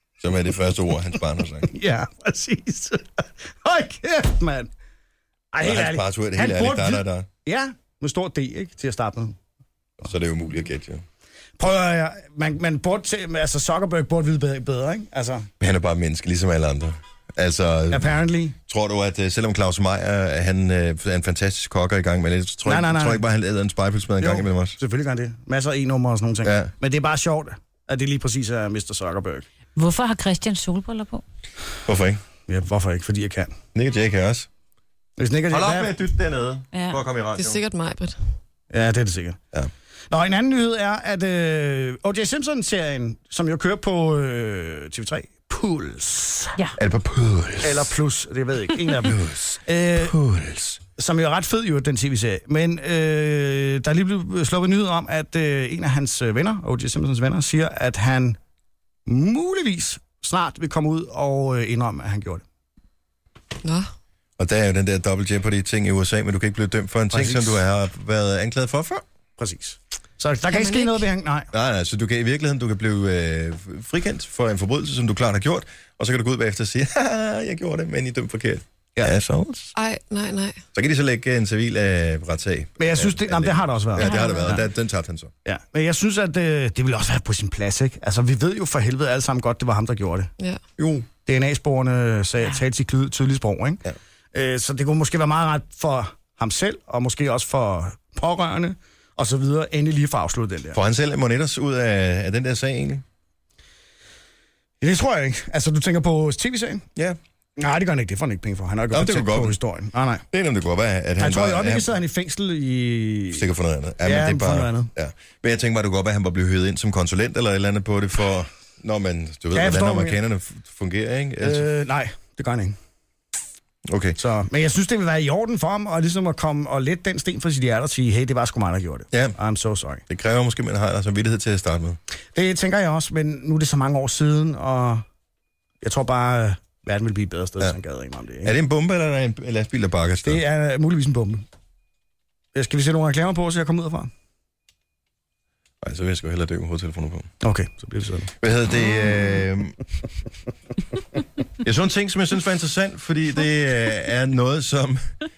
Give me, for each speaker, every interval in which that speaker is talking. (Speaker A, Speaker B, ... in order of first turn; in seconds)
Speaker A: 0.2-1.7, 5.6-7.3, 10.0-11.0, 15.6-24.8, 26.4-26.7, 31.9-32.2, 33.8-34.5, 35.5-37.6, 46.8-47.9, 49.0-50.8, 64.4-69.0, 71.5-79.7, 80.7-85.3, 90.8-91.1, 100.7-103.0, 108.9-109.6, 110.3-111.9, 113.3-121.7, 123.9-124.2, 130.1-132.0, 138.4-140.4, 145.8-147.3, 148.4-149.8, 151.6-155.1
Speaker B: 1.1-4.7, 5.5-9.4, 11.6-15.5, 17.9-18.6, 22.6-23.2, 24.2-29.5, 32.5-33.5, 35.2-35.9, 38.7-39.4, 40.1-46.5, 47.6-50.1, 51.0-58.4, 59.1-62.4, 67.1-67.6, 69.4-71.5, 82.8-84.1, 85.5-90.3, 91.1-100.8, 104.8-106.8, 107.6-110.2, 111.2-113.5, 114.0-114.9, 119.5-120.2, 121.4-122.8, 124.2-130.0, 132.3-135.1, 135.8-138.5, 140.2-141.4, 142.5-144.1, 147.4-148.3
Speaker C: 29.8-31.2, 36.7-37.0, 84.1-84.6
Speaker D: 37.4-38.2, 63.6-63.9, 70.5-71.0, 79.8-80.6, 84.1-84.6